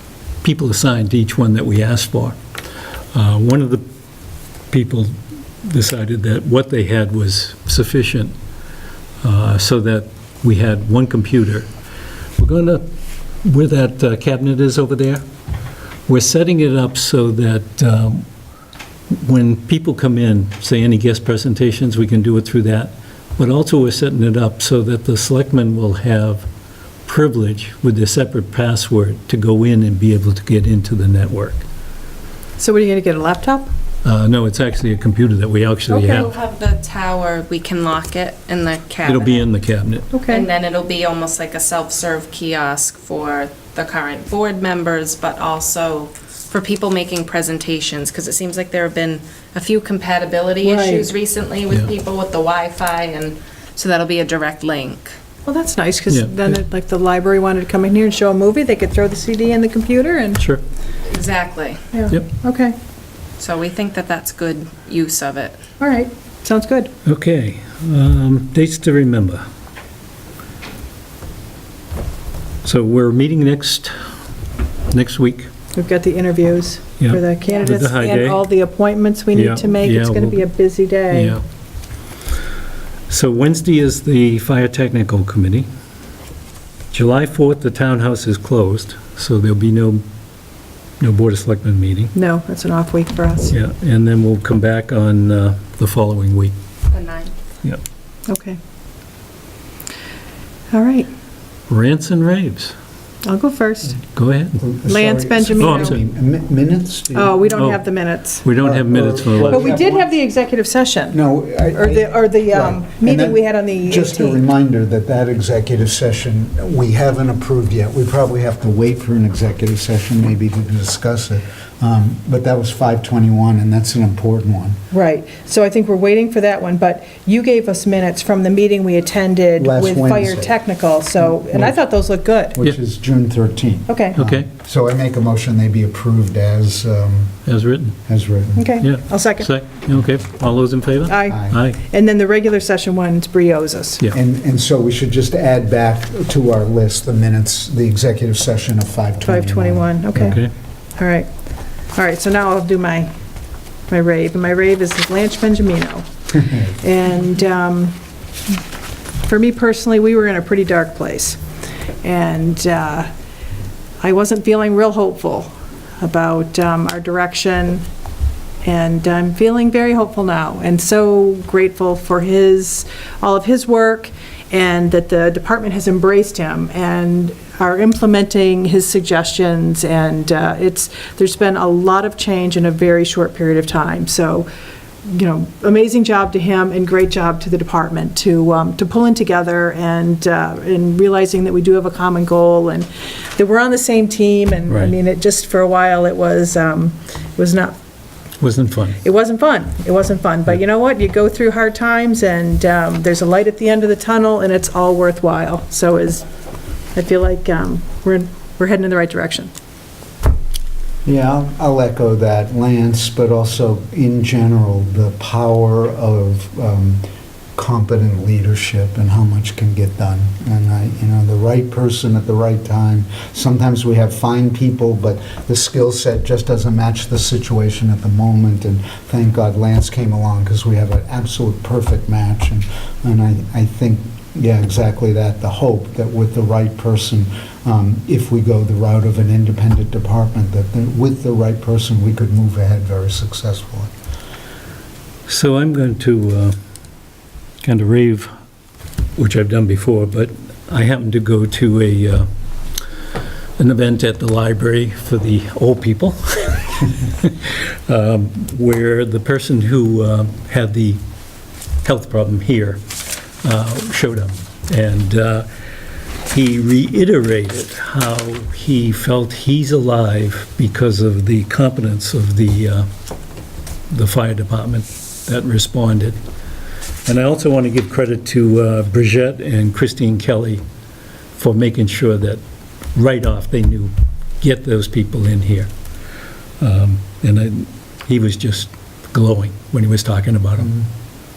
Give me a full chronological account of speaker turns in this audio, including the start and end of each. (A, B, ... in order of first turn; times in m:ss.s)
0:00.4-0:02.4 A
0:03.1-0:03.8 A
0:04.7-0:08.3 A
0:09.2-0:11.7 A
0:12.4-0:12.8 A
0:13.4-0:15.2 A
0:16.1-0:18.2 A
0:19.1-0:26.4 A
0:27.0-0:31.6 A
0:32.6-0:33.7 B
0:34.0-0:36.3 A
0:35.9-0:36.2 B
0:36.0-0:39.5 C
0:39.0-0:40.1 A
0:40.1-0:40.5 B
0:40.3-0:55.1 C
0:50.6-0:51.1 B
0:55.4-1:00.4 B
0:56.1-0:56.6 A
1:01.1-1:01.8 C
1:01.9-1:02.8 B
1:03.4-1:05.6 C
1:05.8-1:06.9 B
1:07.0-1:09.4 A
1:12.6-1:13.9 A
1:14.9-1:15.5 A
1:15.7-1:21.4 B
1:17.0-1:18.4 A
1:19.3-1:20.5 A
1:21.1-1:21.4 A
1:23.1-1:25.7 A
1:26.9-1:30.0 A
1:31.0-1:32.1 A
1:32.1-1:33.5 B
1:33.5-1:36.5 A
1:36.9-1:37.3 C
1:38.3-1:38.6 B
1:40.7-1:41.1 B
1:41.7-1:42.8 A
1:43.2-1:44.0 B
1:44.1-1:44.6 A
1:44.6-1:47.5 D
1:44.9-1:46.0 B
1:45.6-1:46.0 A
1:47.1-1:48.4 B
1:47.5-1:47.8 A
1:48.4-1:49.8 A
1:48.6-1:50.1 D
1:49.5-1:51.2 B
1:51.1-2:04.8 D
1:51.7-1:54.4 B
2:04.9-2:12.6 B
2:09.6-2:10.5 D
2:12.5-2:17.4 D
2:13.9-2:14.2 B
2:14.2-2:14.5 A
2:17.4-2:18.0 A
2:18.1-2:18.7 D
2:18.6-2:19.5 B
2:18.8-2:21.8 A
2:21.1-2:24.0 B
2:21.3-2:21.6 D
2:24.1-2:30.4 D
2:29.2-2:30.4 B
2:30.1-2:30.5 A
2:31.0-2:31.3 B
2:31.9-2:33.1 B
2:33.9-2:37.9 B
2:39.2-2:41.4 B
2:42.0-2:43.1 B
2:44.0-2:47.8 B
2:48.6-3:04.5 B
3:05.0-3:17.8 B
3:14.7-3:14.9 A
3:18.4-3:19.0 A
3:19.0-3:26.2 B
3:26.9-3:29.5 B
3:31.0-3:37.0 D
3:37.6-4:03.9 D
4:05.3-4:06.6 A
4:07.6-4:08.3 A
4:09.2-4:12.3 A
4:13.6-4:21.0 A
4:21.8-4:22.8 A
4:23.4-4:25.5 A
4:26.3-4:32.9 A
4:33.9-4:36.2 A
4:37.0-4:40.6 A
4:41.3-4:42.4 A
4:42.9-4:45.7 A
4:46.6-4:50.7 A
4:50.6-4:50.9 D